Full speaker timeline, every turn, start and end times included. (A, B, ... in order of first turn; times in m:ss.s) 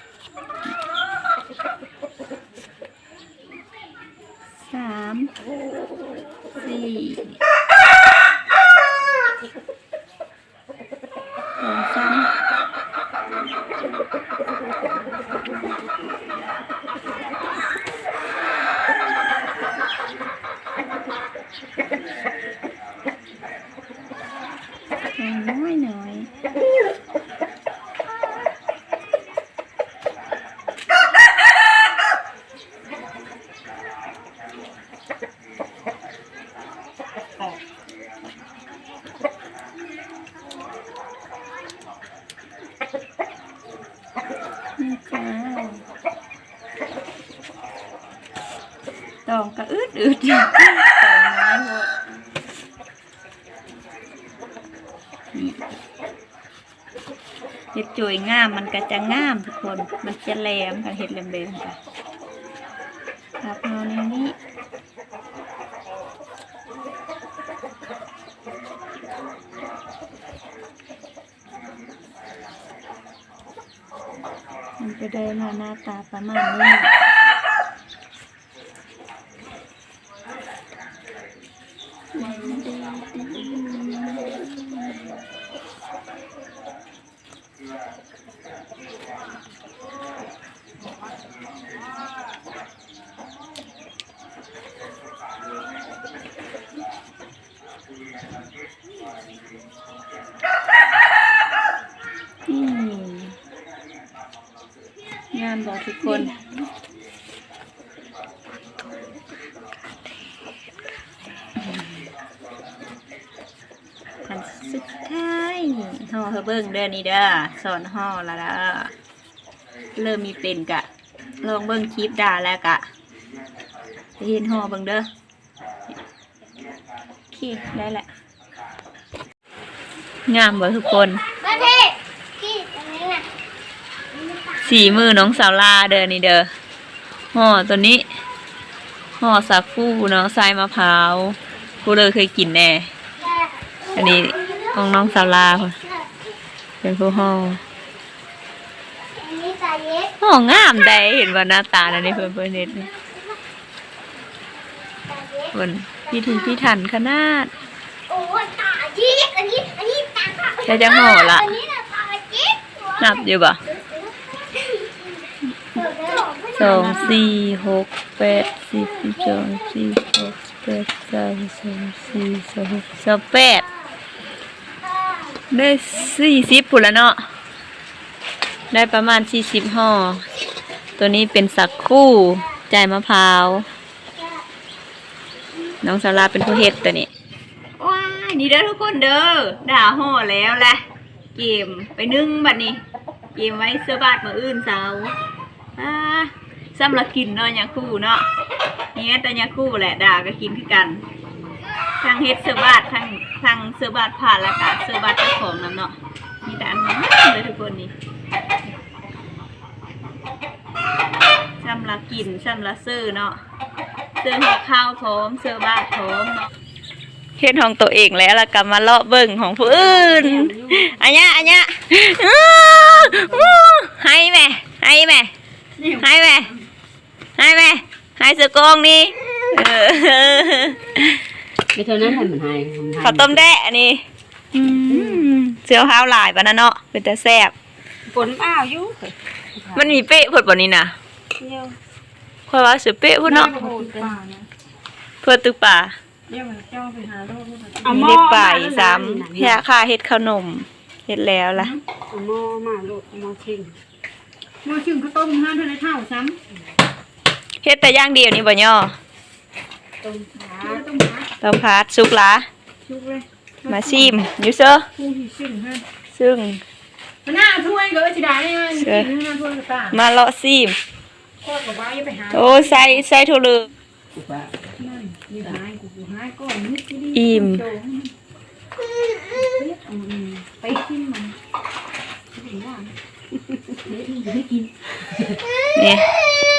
0:04.6-0:05.3 A
0:06.6-0:07.4 A
0:11.6-0:12.3 A
0:25.2-0:26.3 A
0:44.8-0:45.8 A
0:49.3-0:51.9 A
0:55.3-0:55.6 A
0:57.7-1:01.8 A
1:03.4-1:04.4 A
1:14.8-1:16.9 A
1:22.1-1:24.9 A
1:42.5-1:43.4 A
1:45.3-1:46.4 A
1:54.3-1:58.9 A
2:00.0-2:00.9 A
2:01.4-2:02.8 A
2:04.2-2:05.1 A
2:07.3-2:08.1 A
2:10.3-2:11.2 A
2:11.4-2:13.2 B
2:14.6-2:16.5 A
2:17.3-2:18.0 A
2:19.2-2:22.9 A
2:24.0-2:25.8 A
2:26.8-2:27.6 A
2:29.2-2:30.1 B
2:30.2-2:32.9 A
2:35.1-2:35.5 B
2:35.5-2:37.5 A
2:38.1-2:42.8 B
2:40.6-2:41.6 A
2:43.0-2:43.6 A
2:43.9-2:45.1 B
2:45.8-2:46.5 B
2:46.5-2:53.7 A
2:55.5-2:57.2 A
2:58.7-3:00.2 A
3:01.0-3:03.7 A
3:05.8-3:07.1 A
3:07.8-3:10.8 A
3:11.4-3:12.8 A
3:13.4-3:15.2 A
3:15.8-3:18.3 A
3:18.9-3:21.0 A
3:22.0-3:27.9 A
3:31.6-3:33.4 A
3:34.2-3:36.5 A
3:37.4-3:45.3 A
3:39.6-3:41.4 C
3:46.0-3:46.5 A
3:47.4-3:51.2 A
3:51.8-3:53.4 C
3:53.0-3:54.0 A
3:54.5-3:57.5 A
3:54.8-3:55.3 C
3:58.1-4:00.0 C
3:59.8-4:01.0 A
4:01.4-4:01.8 C
4:02.5-4:03.5 A
4:03.3-4:04.5 D
4:03.3-4:04.2 C
4:05.2-4:05.9 A
4:06.3-4:08.1 D
4:07.8-4:09.6 C
4:07.9-4:11.8 A
4:11.6-4:11.8 D
4:12.1-4:13.7 C
4:14.6-4:16.4 D
4:17.6-4:18.9 A
4:20.0-4:20.8 C
4:20.5-4:21.3 D
4:21.4-4:22.5 A
4:22.9-4:24.2 D
4:23.7-4:24.9 A
4:25.0-4:25.8 D
4:26.1-4:26.6 A
4:27.2-4:30.0 D
4:28.8-4:29.1 A
4:29.9-4:30.8 A
4:31.4-4:33.0 D
4:32.3-4:33.7 A
4:34.2-4:34.5 C
4:34.8-4:38.1 D
4:37.1-4:37.6 A
4:39.5-4:41.4 D
4:39.9-4:40.4 C
4:42.3-4:42.9 D
4:43.7-4:45.4 C
4:45.8-4:46.1 A